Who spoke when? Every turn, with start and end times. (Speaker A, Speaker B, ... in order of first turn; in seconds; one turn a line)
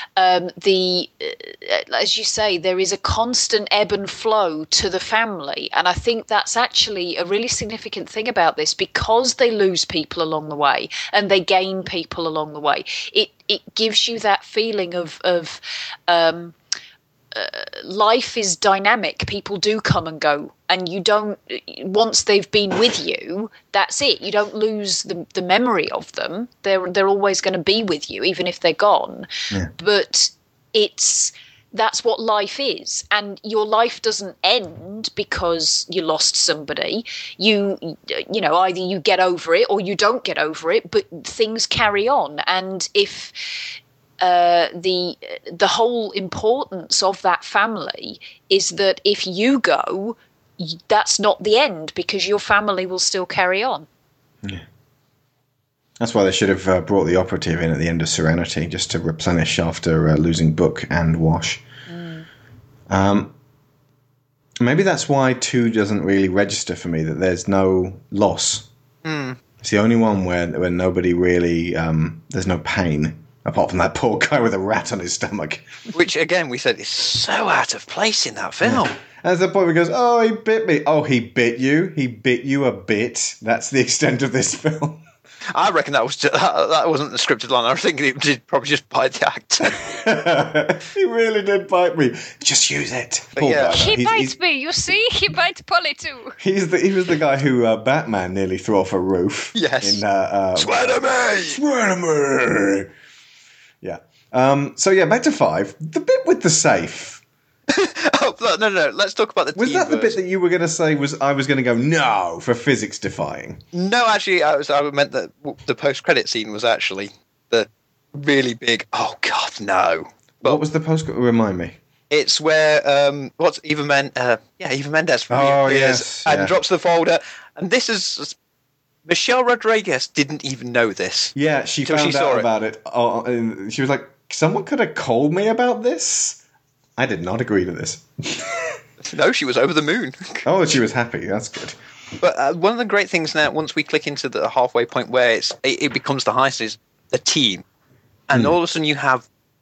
Speaker A: 0.2-16.6
Speaker A: 17.3-43.3
Speaker A: 44.2-53.9
Speaker B: 56.0-61.6
Speaker A: 61.9-62.3
Speaker B: 62.9-63.3
Speaker B: 64.6-68.7
Speaker C: 69.0-69.4
Speaker B: 69.6-75.8
Speaker C: 75.9-79.0
Speaker B: 78.6-85.0
Speaker C: 85.5-89.8
Speaker B: 89.7-94.3
Speaker C: 93.4-93.8
Speaker A: 93.8-96.4
Speaker B: 96.4-102.9
Speaker C: 99.5-100.0
Speaker C: 100.6-101.6
Speaker B: 103.8-107.2
Speaker C: 107.7-110.2
Speaker B: 109.6-113.6
Speaker C: 113.7-120.6
Speaker B: 120.4-121.8
Speaker C: 122.1-128.3
Speaker B: 125.3-126.6
Speaker C: 129.1-131.3
Speaker B: 131.4-136.4
Speaker C: 131.8-132.5
Speaker B: 137.0-138.8
Speaker C: 139.0-140.4
Speaker B: 140.5-141.8
Speaker C: 142.2-147.6
Speaker C: 148.3-149.2